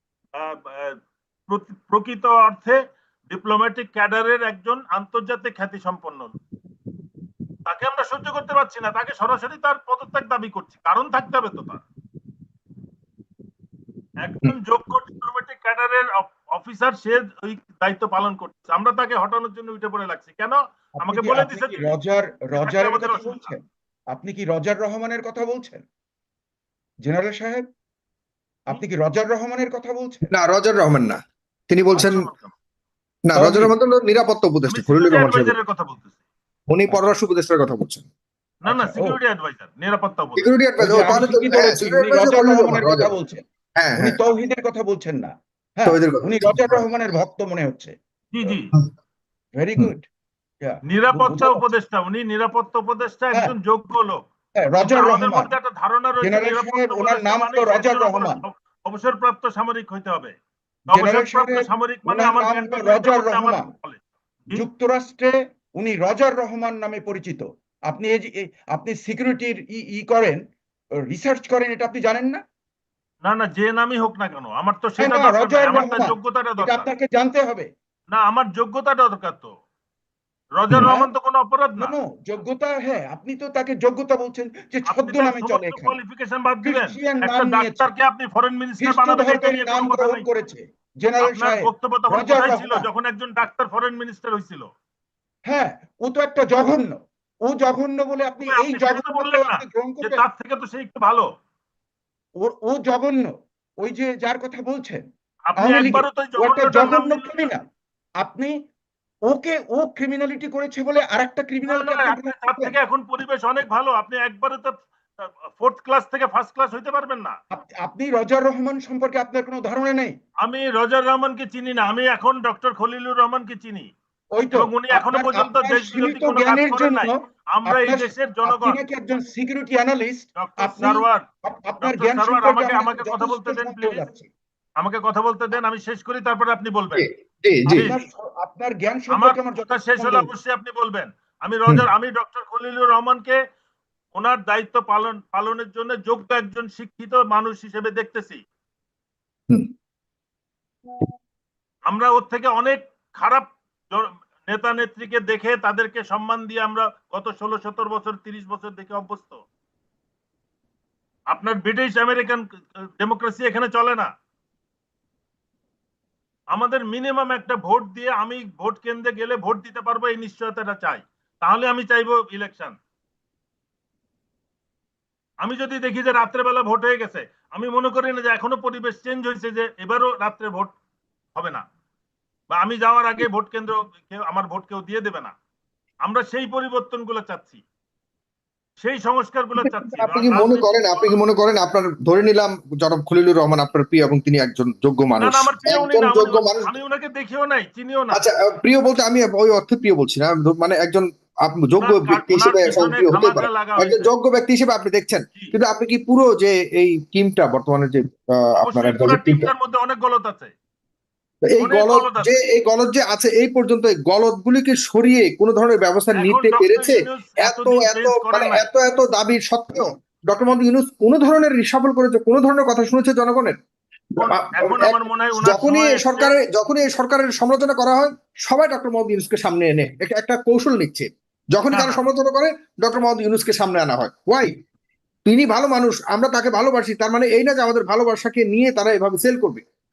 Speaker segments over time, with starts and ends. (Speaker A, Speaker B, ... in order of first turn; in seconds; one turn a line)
Speaker A: 0.4-6.3
Speaker A: 7.7-11.8
Speaker A: 14.2-22.0
Speaker B: 21.0-25.8
Speaker A: 22.6-23.5
Speaker B: 27.0-27.7
Speaker B: 28.7-30.3
Speaker C: 30.3-32.3
Speaker A: 31.9-32.5
Speaker C: 33.3-35.5
Speaker B: 33.4-33.7
Speaker A: 34.7-36.2
Speaker C: 36.7-38.1
Speaker A: 38.6-41.3
Speaker B: 38.7-39.2
Speaker C: 40.4-43.1
Speaker B: 40.8-43.5
Speaker C: 43.8-44.2
Speaker B: 44.0-48.0
Speaker C: 45.9-46.8
Speaker A: 48.3-48.7
Speaker B: 49.6-50.1
Speaker B: 50.6-51.7
Speaker A: 50.9-54.2
Speaker B: 54.6-55.5
Speaker A: 54.8-60.4
Speaker B: 56.2-58.4
Speaker A: 60.9-64.7
Speaker B: 60.9-63.7
Speaker B: 64.5-70.4
Speaker B: 71.0-72.4
Speaker A: 73.2-76.9
Speaker B: 75.0-77.7
Speaker A: 78.1-79.5
Speaker A: 80.6-81.9
Speaker B: 80.8-81.1
Speaker B: 81.8-86.0
Speaker A: 84.9-90.3
Speaker B: 86.6-87.9
Speaker B: 88.8-92.9
Speaker A: 91.2-94.7
Speaker B: 95.5-100.2
Speaker A: 98.4-101.3
Speaker B: 102.4-105.0
Speaker A: 105.5-107.5
Speaker B: 105.6-107.6
Speaker B: 108.2-108.5
Speaker B: 109.3-112.8
Speaker A: 111.7-117.4
Speaker B: 117.5-120.2
Speaker A: 120.4-123.9
Speaker B: 124.3-134.3
Speaker A: 124.5-128.8
Speaker A: 130.4-131.2
Speaker A: 131.8-134.1
Speaker A: 134.8-137.1
Speaker C: 136.9-137.9
Speaker A: 137.7-138.1
Speaker B: 137.8-140.3
Speaker A: 139.1-143.4
Speaker A: 144.2-148.4
Speaker A: 151.9-159.4
Speaker A: 161.3-162.4
Speaker A: 163.0-164.1
Speaker A: 166.5-172.8
Speaker A: 175.4-180.7
Speaker A: 181.3-181.6
Speaker A: 182.5-185.3
Speaker A: 186.1-187.6
Speaker A: 188.8-191.2
Speaker C: 189.6-196.7
Speaker A: 195.2-198.2
Speaker C: 198.1-209.5
Speaker A: 201.8-204.1
Speaker A: 208.6-210.5
Speaker C: 211.4-223.6
Speaker A: 211.6-212.4
Speaker A: 216.2-218.7
Speaker A: 224.2-226.3
Speaker C: 224.2-234.6
Speaker A: 231.7-232.0
Speaker C: 235.3-239.6